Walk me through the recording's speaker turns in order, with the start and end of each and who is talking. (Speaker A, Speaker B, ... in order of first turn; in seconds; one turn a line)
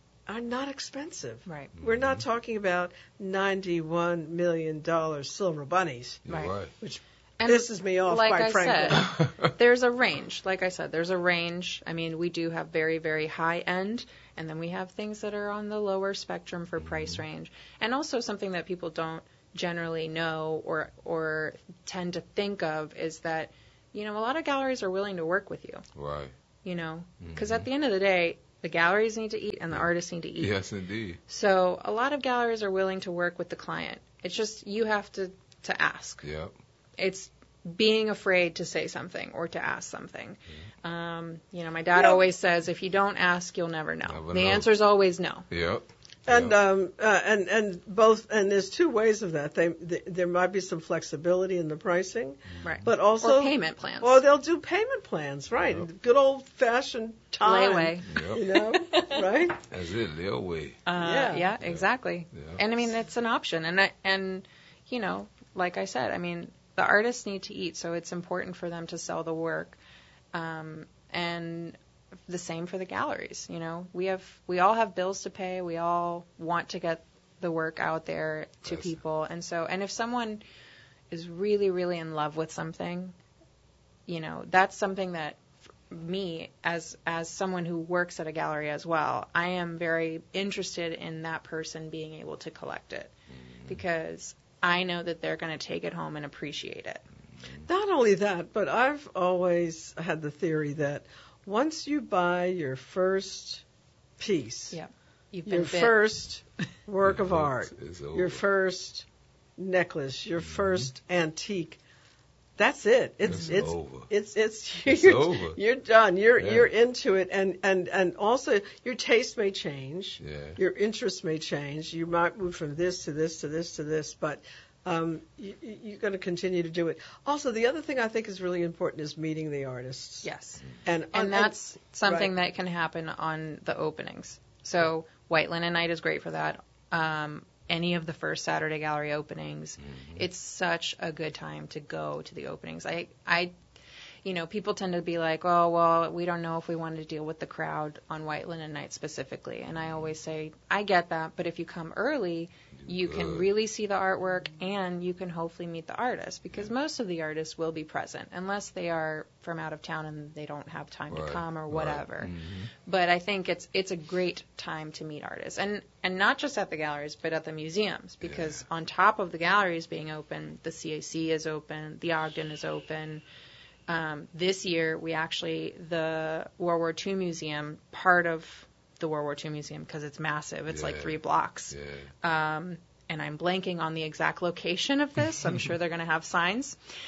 Speaker A: 0.3-6.2
Speaker B: 1.8-2.2
Speaker B: 6.2-6.7
Speaker A: 6.8-9.0
Speaker C: 7.4-25.8
Speaker B: 9.0-9.5
Speaker B: 16.8-17.2
Speaker B: 25.9-26.3
Speaker C: 26.6-30.5
Speaker B: 27.2-27.7
Speaker B: 30.4-31.2
Speaker C: 31.3-36.2
Speaker B: 36.2-36.5
Speaker C: 37.0-45.5
Speaker A: 42.0-42.2
Speaker B: 44.1-44.6
Speaker B: 45.5-46.5
Speaker A: 46.3-59.6
Speaker C: 52.6-54.2
Speaker C: 57.4-58.2
Speaker B: 58.1-58.4
Speaker C: 58.7-59.2
Speaker B: 59.7-60.8
Speaker C: 60.9-69.8
Speaker A: 61.0-61.5
Speaker B: 61.6-62.6
Speaker C: 70.3-71.8
Speaker C: 72.3-80.4
Speaker B: 78.7-79.0
Speaker C: 81.1-83.1
Speaker C: 84.1-93.1
Speaker C: 93.7-97.0
Speaker A: 97.7-103.6
Speaker A: 104.2-104.8
Speaker C: 104.7-106.0
Speaker A: 105.5-109.0
Speaker B: 107.0-108.4
Speaker A: 109.6-111.8
Speaker B: 110.4-110.9
Speaker A: 112.6-130.2
Speaker B: 113.2-114.1
Speaker B: 114.9-115.6
Speaker B: 116.4-116.7
Speaker B: 120.2-120.6
Speaker C: 130.2-143.5
Speaker A: 130.8-132.3
Speaker B: 139.8-140.2
Speaker C: 144.2-162.3
Speaker B: 152.8-153.5
Speaker B: 161.1-162.7
Speaker C: 162.8-173.2
Speaker B: 168.2-168.6
Speaker C: 173.9-186.8
Speaker B: 180.7-181.2
Speaker B: 181.7-182.1